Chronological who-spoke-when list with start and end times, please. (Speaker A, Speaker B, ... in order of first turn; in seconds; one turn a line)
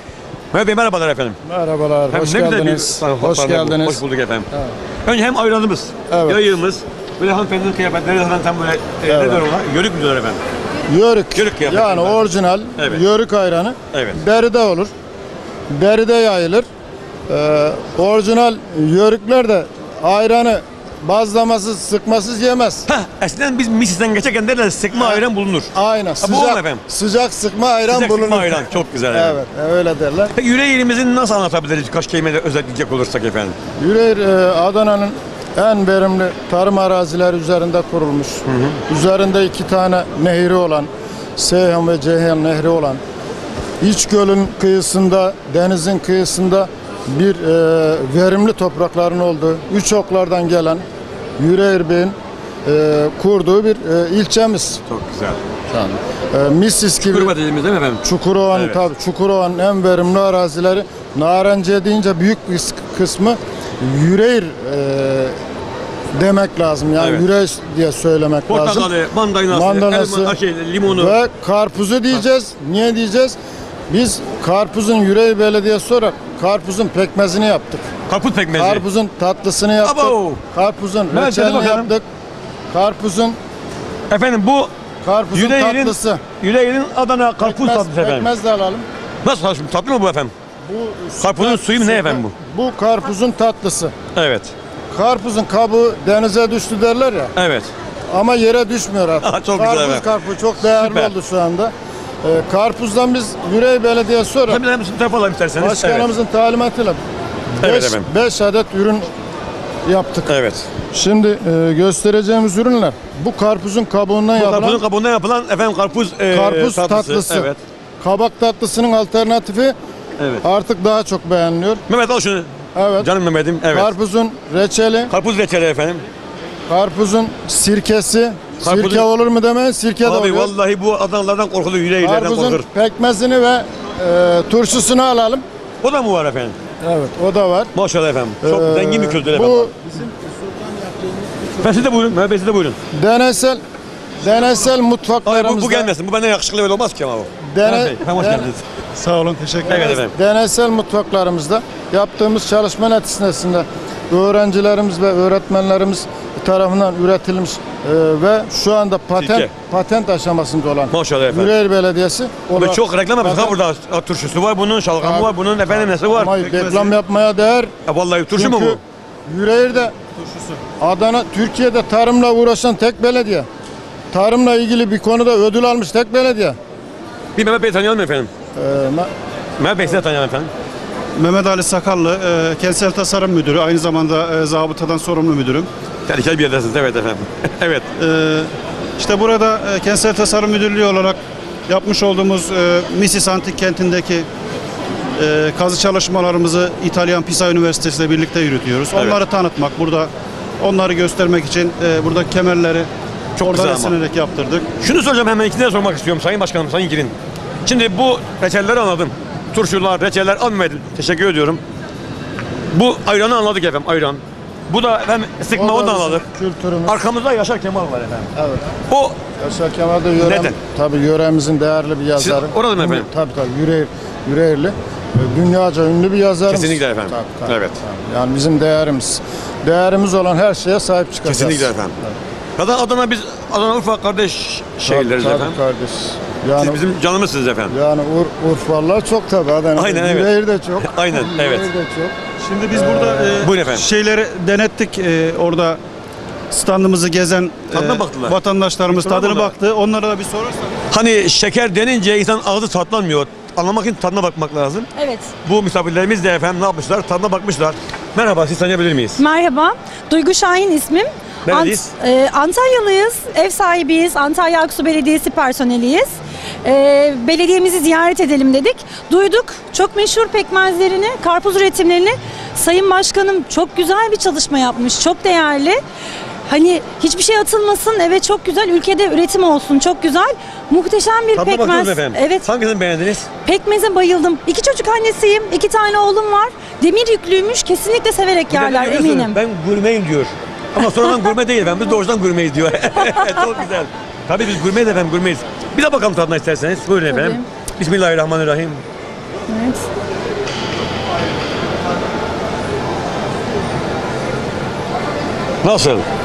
Speaker A: 0.5-1.4
Speaker B: 1.4-4.7
Speaker A: 2.1-4.5
Speaker A: 5.0-10.4
Speaker B: 6.1-6.4
Speaker B: 9.1-9.4
Speaker B: 10.9-14.9
Speaker A: 11.3-12.2
Speaker A: 12.8-13.0
Speaker A: 13.9-14.2
Speaker B: 15.7-16.6
Speaker B: 17.3-22.9
Speaker A: 22.9-26.8
Speaker B: 24.9-25.2
Speaker B: 25.7-30.3
Speaker A: 27.9-29.4
Speaker A: 30.3-33.5
Speaker B: 33.8-43.0
Speaker A: 38.5-38.8
Speaker B: 43.8-50.8
Speaker B: 51.4-52.1
Speaker B: 52.6-54.8
Speaker A: 54.9-55.4
Speaker B: 55.7-57.3
Speaker A: 57.1-58.8
Speaker B: 58.0-65.4
Speaker B: 66.1-68.9
Speaker A: 67.0-67.2
Speaker A: 68.5-71.1
Speaker B: 69.5-73.4
Speaker B: 73.9-77.9
Speaker A: 78.1-78.8
Speaker B: 78.5-82.0
Speaker A: 79.8-80.4
Speaker A: 81.1-81.9
Speaker B: 82.7-83.4
Speaker A: 84.1-84.7
Speaker B: 85.0-86.2
Speaker A: 85.3-88.3
Speaker B: 87.4-88.8
Speaker A: 89.2-90.3
Speaker B: 90.6-93.9
Speaker A: 91.2-92.3
Speaker A: 94.1-94.5
Speaker B: 94.9-97.3
Speaker A: 97.3-97.7
Speaker B: 98.1-101.7
Speaker A: 99.2-100.1
Speaker A: 100.6-101.1
Speaker B: 102.2-104.6
Speaker A: 104.5-106.1
Speaker B: 105.6-107.0
Speaker A: 107.6-108.1
Speaker B: 107.6-109.1
Speaker B: 109.8-110.3
Speaker A: 110.3-110.7
Speaker B: 110.9-114.8
Speaker A: 114.4-117.6
Speaker B: 116.3-119.7
Speaker B: 120.4-121.8
Speaker A: 121.9-123.9
Speaker B: 122.7-123.1
Speaker B: 123.7-125.1
Speaker A: 125.1-126.0
Speaker B: 126.7-130.5
Speaker A: 128.6-129.0
Speaker A: 130.0-132.7
Speaker B: 132.0-135.4
Speaker A: 135.8-136.6
Speaker B: 136.8-137.7
Speaker A: 137.7-139.7
Speaker B: 138.4-141.5
Speaker A: 141.6-142.8
Speaker B: 142.9-143.6
Speaker B: 144.2-145.9
Speaker A: 145.2-148.6
Speaker B: 147.4-148.5
Speaker C: 148.9-149.9
Speaker A: 149.7-150.1
Speaker B: 149.7-163.6
Speaker A: 159.2-159.5
Speaker A: 160.9-161.5
Speaker A: 162.5-166.3
Speaker B: 165.0-165.3
Speaker B: 166.1-167.7
Speaker C: 166.3-166.9
Speaker A: 167.8-168.8
Speaker B: 168.3-169.9
Speaker C: 170.2-170.6
Speaker B: 170.8-173.5
Speaker B: 174.1-176.6
Speaker A: 177.3-178.3
Speaker B: 178.5-179.1
Speaker A: 179.6-180.5
Speaker C: 181.2-185.7
Speaker A: 186.1-187.8
Speaker C: 188.0-194.3
Speaker C: 195.2-202.9
Speaker A: 198.9-199.2
Speaker A: 203.4-203.9
Speaker C: 203.4-204.7
Speaker A: 204.8-207.1
Speaker A: 207.6-211.6
Speaker A: 212.7-216.3
Speaker B: 215.5-217.0
Speaker A: 216.8-218.3
Speaker B: 218.3-218.8
Speaker A: 218.9-219.2
Speaker B: 219.4-232.1
Speaker A: 220.2-220.6
Speaker A: 222.2-223.1
Speaker A: 226.5-227.8
Speaker A: 231.2-231.9
Speaker A: 232.6-235.6
Speaker B: 234.8-236.8
Speaker A: 236.6-237.7
Speaker B: 237.7-242.1
Speaker A: 239.8-241.7
Speaker C: 242.4-245.8
Speaker B: 242.7-243.4
Speaker A: 243.4-243.8
Speaker C: 246.5-250.8
Speaker A: 247.7-248.4
Speaker A: 248.9-249.5
Speaker A: 250.9-254.9
Speaker D: 254.9-255.3
Speaker A: 255.4-259.2
Speaker D: 259.2-266.1
Speaker A: 261.4-261.9
Speaker D: 266.6-275.8
Speaker D: 276.5-282.5
Speaker A: 281.3-283.3
Speaker D: 283.4-289.4
Speaker A: 288.5-298.8
Speaker D: 297.1-297.4
Speaker D: 299.5-299.8
Speaker A: 305.6-306.0